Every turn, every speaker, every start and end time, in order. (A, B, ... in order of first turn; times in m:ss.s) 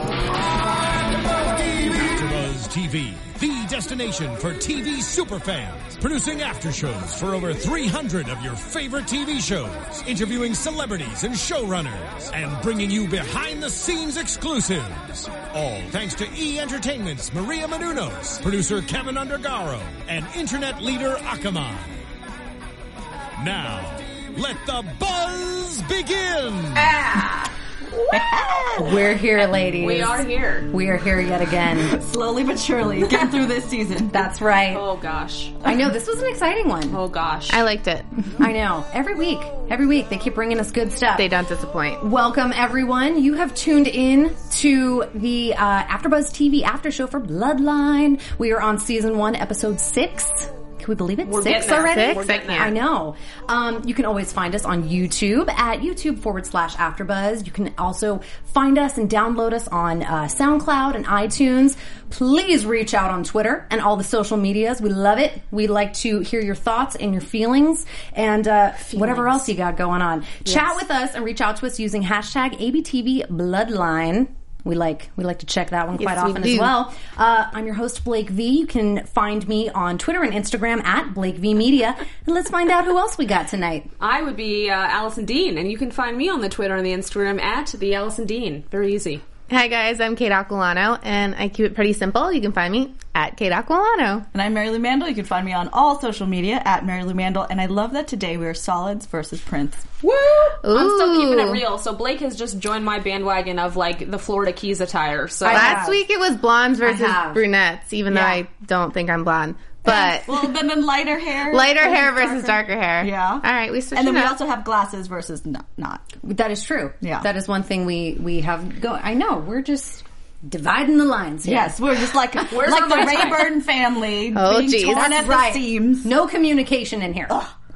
0:01.0-0:22.0 A
0:23.4-0:26.9 A
0:26.8-0:27.5 B
0:28.1-0:29.2 C
0:28.8-0:32.0 D
0:29.8-0:30.7 B
0:31.6-0:34.2 C
0:34.1-0:34.8 D
0:34.7-0:35.6 B
0:35.6-0:37.0 D
0:36.9-0:37.7 B
0:37.5-0:38.1 E
0:38.4-0:41.3 D
0:41.2-0:42.0 E
0:42.0-1:23.9 D
0:51.2-0:52.7 B
0:51.6-0:52.7 E
1:08.9-1:09.3 B
1:16.0-1:16.7 E
1:24.0-1:29.2 B
1:29.5-1:34.3 E
1:34.3-1:39.9 C
1:40.0-1:45.8 B
1:40.6-1:41.6 E
1:45.4-1:46.0 D
1:45.5-1:50.5 E
1:46.8-1:47.4 D
1:48.1-1:48.4 C
1:49.9-1:56.0 C
1:51.5-1:54.4 E
1:56.2-2:02.2 D
1:57.0-1:57.3 C
2:01.4-2:06.1 C
2:02.4-2:03.5 B
2:04.3-2:05.1 E
2:04.9-2:07.4 D